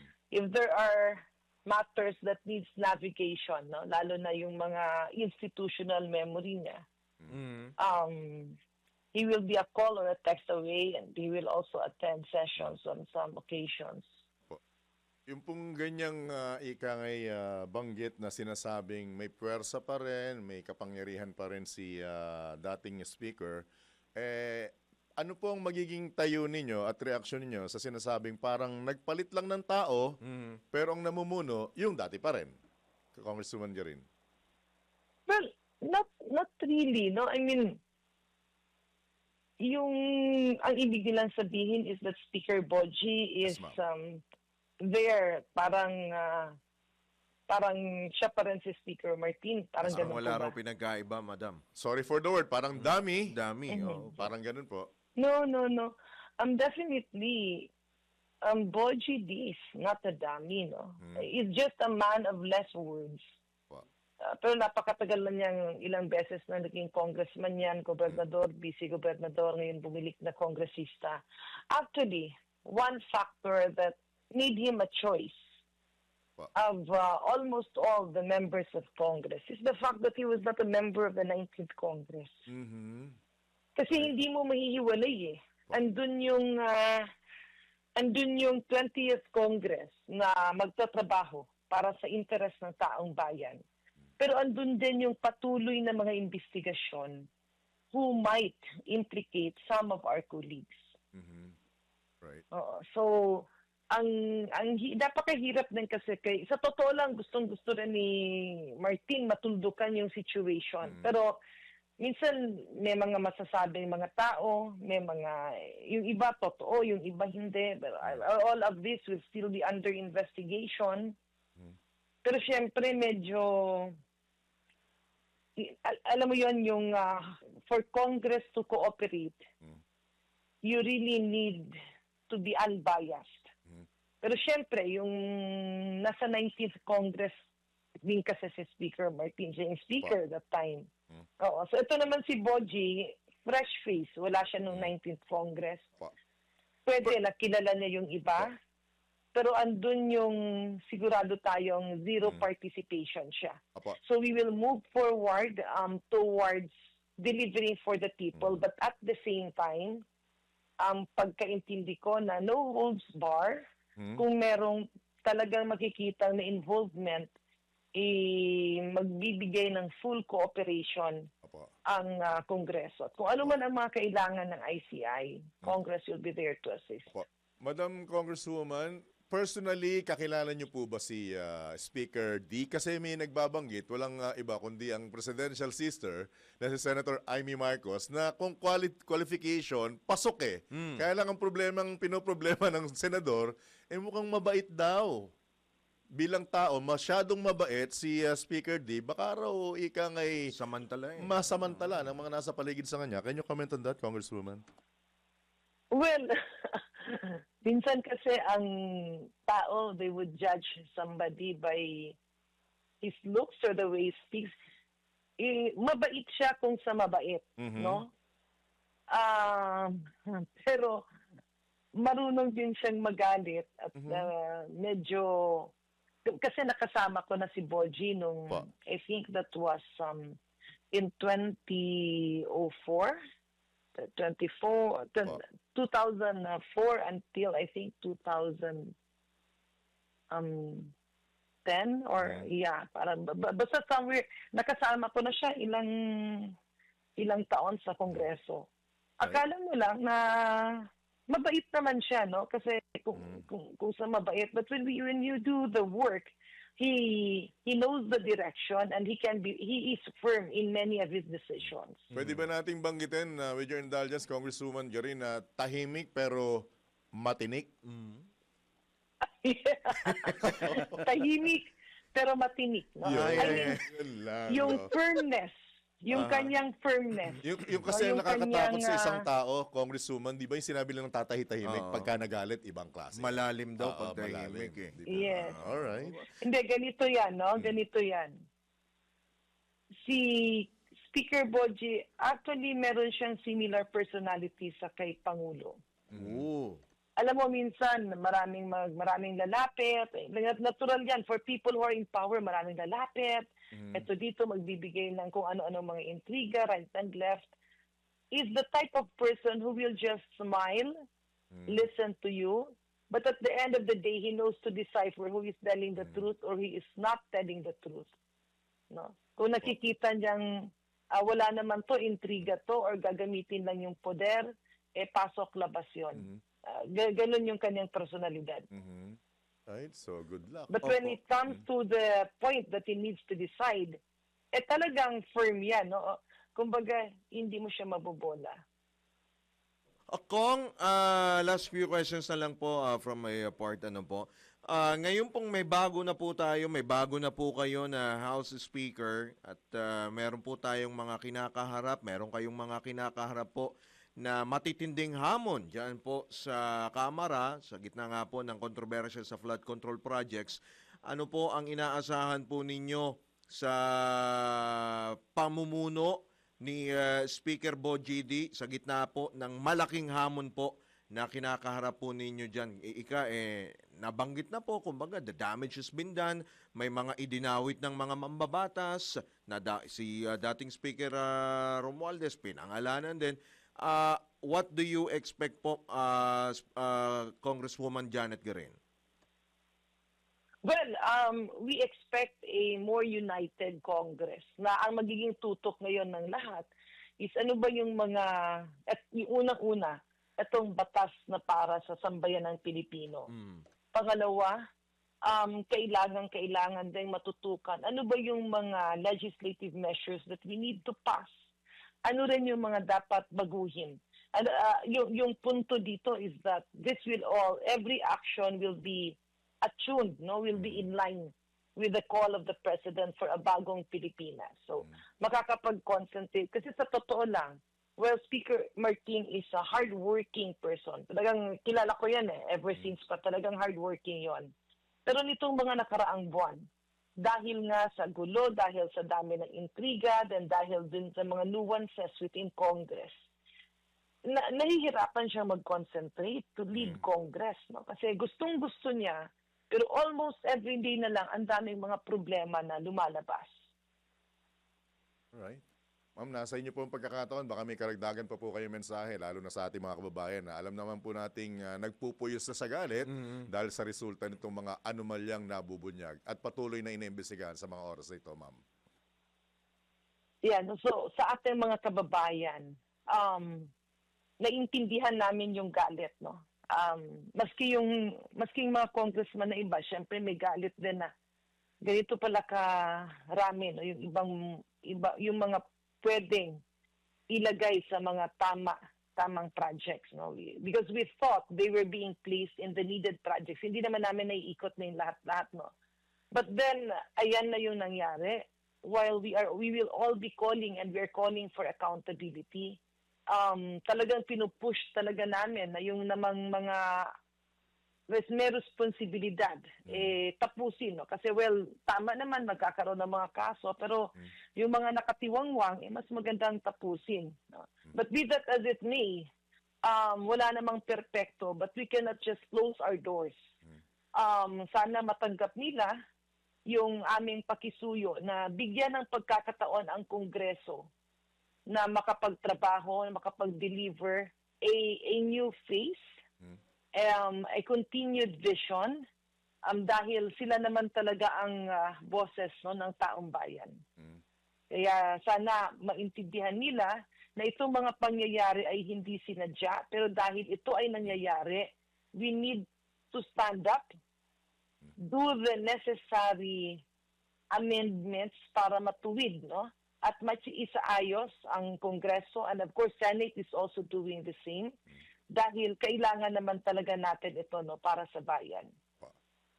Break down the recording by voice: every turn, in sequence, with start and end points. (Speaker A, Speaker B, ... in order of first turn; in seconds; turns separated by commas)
Speaker A: 0.3-6.8, Speaker B: 7.3-7.7, Speaker A: 7.8-8.6, Speaker A: 9.1-14.1, Speaker C: 15.3-30.2, Speaker B: 30.2-30.6, Speaker C: 30.7-32.5, Speaker C: 33.1-34.0, Speaker A: 35.3-37.8, Speaker A: 39.6-44.2, Speaker C: 43.4-43.8, Speaker A: 44.8-46.6, Speaker A: 47.5-50.6, Speaker C: 49.9-50.2, Speaker B: 49.9-51.6, Speaker C: 51.8-53.4, Speaker B: 52.8-54.2, Speaker A: 53.7-54.2, Speaker C: 54.2-54.9, Speaker A: 55.2-57.7, Speaker A: 58.4-63.2, Speaker C: 61.0-61.3, Speaker A: 64.2-75.5, Speaker A: 76.5-82.5, Speaker C: 82.5-83.2, Speaker A: 83.8-87.1, Speaker A: 88.0-93.6, Speaker A: 94.2-97.3, Speaker A: 97.9-101.0, Speaker C: 101.1-101.6, Speaker A: 102.5-111.4, Speaker C: 110.8-111.1, Speaker A: 112.0-121.2, Speaker A: 122.2-124.0, Speaker A: 125.6-129.5, Speaker A: 130.6-131.8, Speaker A: 132.3-133.5, Speaker A: 134.2-137.3, Speaker A: 138.0-140.9, Speaker A: 141.4-145.9, Speaker A: 146.9-148.6, Speaker A: 149.3-160.0, Speaker A: 160.8-163.7, Speaker C: 164.0-164.2, Speaker A: 164.2-167.3, Speaker A: 167.9-171.3, Speaker C: 171.4-171.7, Speaker A: 171.9-177.1, Speaker C: 177.1-195.3, Speaker B: 190.7-191.0, Speaker C: 196.2-200.5, Speaker B: 200.5-201.9, Speaker C: 201.2-204.6, Speaker A: 205.9-212.2, Speaker A: 213.0-214.5, Speaker A: 215.4-218.1, Speaker C: 217.6-218.0, Speaker A: 219.1-221.1, Speaker A: 222.0-225.7, Speaker C: 224.0-224.3, Speaker A: 226.3-230.4, Speaker A: 230.9-233.2, Speaker A: 234.0-238.9, Speaker A: 240.3-240.9, Speaker A: 241.7-246.6, Speaker C: 242.2-242.5, Speaker A: 247.2-262.1, Speaker C: 253.2-253.4, Speaker B: 262.1-262.4, Speaker C: 262.1-267.7, Speaker B: 267.8-268.2, Speaker A: 269.2-273.8, Speaker B: 270.1-270.8, Speaker C: 270.4-270.9, Speaker C: 273.0-274.9, Speaker B: 273.1-273.9, Speaker A: 274.5-279.3, Speaker B: 276.1-276.5, Speaker C: 277.4-286.2, Speaker B: 281.6-282.1, Speaker B: 283.1-286.2, Speaker A: 285.1-285.6, Speaker A: 286.4-288.4, Speaker A: 290.0-295.8, Speaker C: 296.1-296.5, Speaker B: 296.1-296.8, Speaker A: 297.2-307.5, Speaker C: 303.7-304.1, Speaker A: 308.3-310.9, Speaker C: 311.5-311.8, Speaker A: 311.7-318.1, Speaker C: 316.0-316.2, Speaker A: 318.9-328.7, Speaker C: 326.1-326.4, Speaker C: 328.7-330.8, Speaker A: 330.7-334.0, Speaker B: 330.8-331.2, Speaker A: 334.5-338.6, Speaker B: 340.1-353.7, Speaker B: 354.2-388.8, Speaker A: 390.6-403.3, Speaker B: 403.3-403.6, Speaker A: 403.9-404.6, Speaker A: 405.2-411.4, Speaker A: 412.0-434.5, Speaker C: 420.6-420.8, Speaker A: 435.1-443.2, Speaker A: 444.2-453.5, Speaker C: 446.8-447.0, Speaker C: 455.3-455.6, Speaker C: 456.2-468.6, Speaker B: 463.2-463.5, Speaker A: 470.4-473.7, Speaker A: 474.4-481.1, Speaker A: 481.8-486.6, Speaker A: 487.3-495.7, Speaker A: 496.3-507.1, Speaker A: 508.1-519.3, Speaker C: 509.9-510.2, Speaker A: 519.8-523.4, Speaker A: 524.1-525.9, Speaker A: 526.7-530.9, Speaker A: 531.7-536.0, Speaker A: 536.9-539.0, Speaker A: 539.7-543.8, Speaker A: 544.7-554.0, Speaker A: 555.0-556.8, Speaker A: 557.5-564.8, Speaker A: 565.3-568.7